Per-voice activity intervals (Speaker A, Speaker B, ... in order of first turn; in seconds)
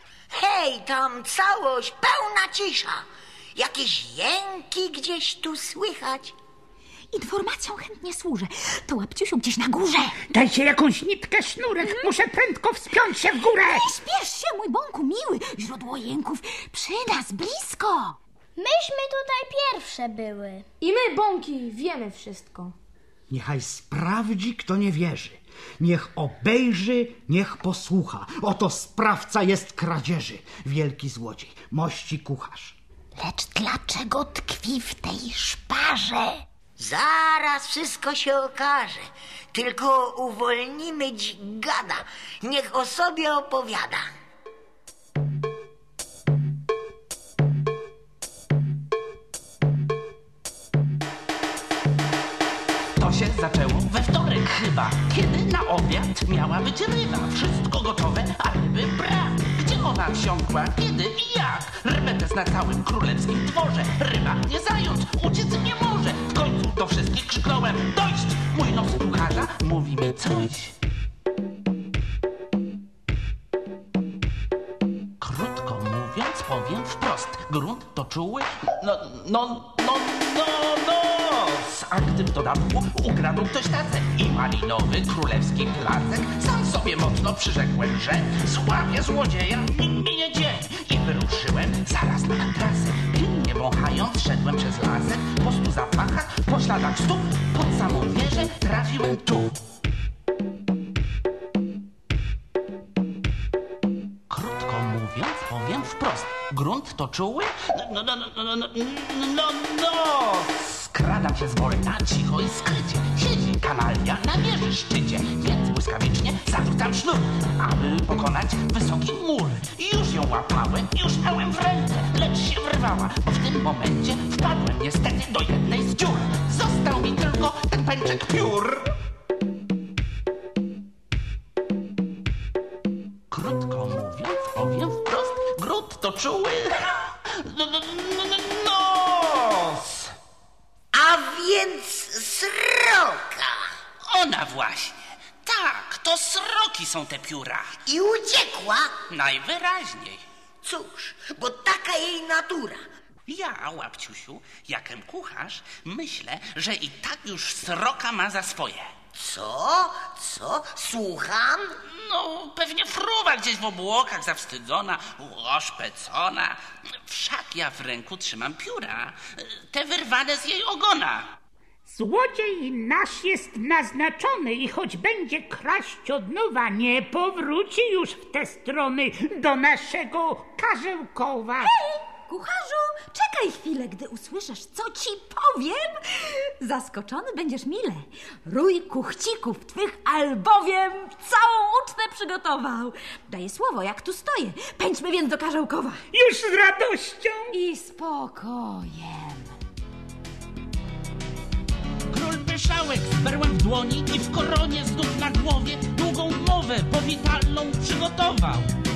Speaker A: 0.3-6.3, 36.8-44.1, 140.9-143.7, 147.9-148.9, 150.6-152.8, 159.2-161.7
Speaker B: 7.1-10.2, 11.8-12.1, 13.3-18.2, 181.6-196.0, 197.5-199.5
Speaker C: 10.2-13.9, 171.9-181.7, 196.1-197.5
Speaker D: 18.6-20.7
Speaker E: 20.8-22.8
Speaker F: 23.3-32.8
Speaker G: 53.0-70.8, 75.2-99.6, 104.3-128.9, 133.3-140.1, 144.1-147.8, 149.1-150.2, 153.3-158.9, 161.9-171.3, 202.1-208.7